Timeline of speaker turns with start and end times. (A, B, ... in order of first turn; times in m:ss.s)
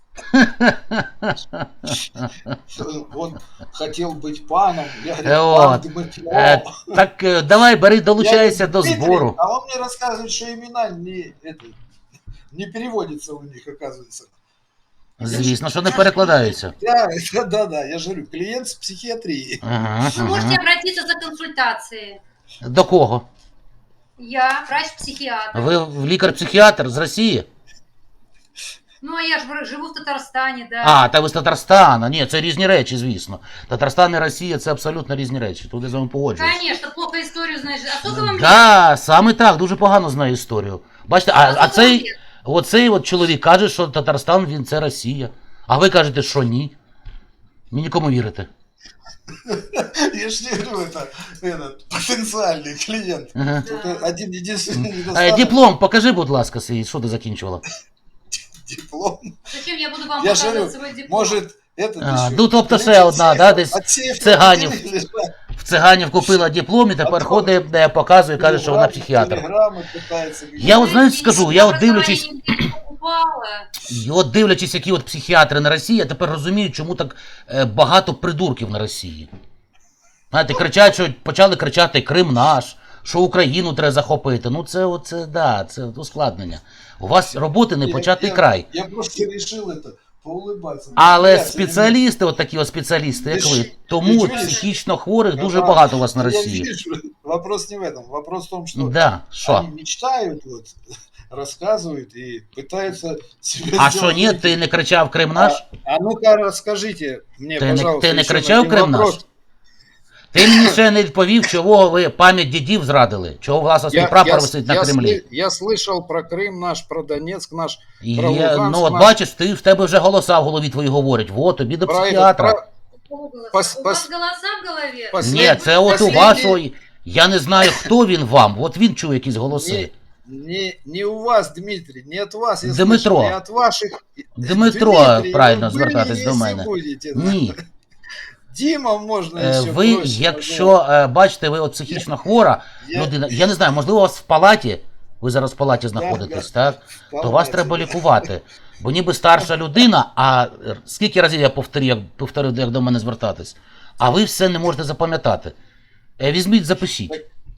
0:00.3-0:02.6 A
0:02.7-0:07.0 B
0:05.2-0:09.4 A
0:08.2-0:11.8 B
0:12.5-0:14.3 B
0:15.2-0:16.7 A
0:15.2-0:19.6 B
0:19.6-0:20.6 A
0:20.0-0:22.2 C
0:22.6-0:23.2 A
0:24.2-0:25.8 C
0:25.5-0:27.4 A
0:29.0-0:31.1 C
0:30.8-0:36.6 A
0:36.3-0:38.7 C
0:38.0-0:46.7 A
0:41.4-0:42.1 C
0:47.7-0:48.5 A
0:49.4-0:55.6 B
0:53.3-0:53.7 A
0:53.6-0:54.1 C
0:54.7-0:57.6 A
0:58.6-0:59.4 B
0:59.5-1:01.4 C
1:00.2-1:05.3 B
1:02.0-1:04.8 A
1:05.5-1:09.4 A
1:07.0-1:07.6 B
1:08.4-1:11.3 B
1:10.6-1:12.7 A
1:10.6-1:13.7 C
1:13.8-1:19.3 A
1:20.3-1:28.7 A
1:27.8-1:32.0 B
1:31.0-1:36.7 A
1:33.3-1:34.6 B
1:34.3-1:34.6 C
1:35.4-1:40.7 B
1:38.7-1:39.7 A
1:41.3-1:44.6 B
1:43.8-1:45.6 A
1:45.4-1:49.2 B
1:47.6-1:49.2 A
1:50.3-1:55.2 A
1:50.4-1:50.8 B
1:53.9-1:59.1 B
1:58.0-2:02.6 A
2:01.8-2:02.6 B
2:03.0-2:06.4 C
2:03.5-2:04.1 B
2:05.1-2:06.6 B
2:05.2-2:09.9 A
2:09.5-2:17.6 B
2:12.6-2:13.4 A
2:14.4-2:17.5 A
2:18.5-2:20.8 B
2:19.4-2:35.5 A
2:22.8-2:23.2 B
2:25.9-2:26.5 B
2:27.1-2:28.2 B
2:36.2-2:37.2 A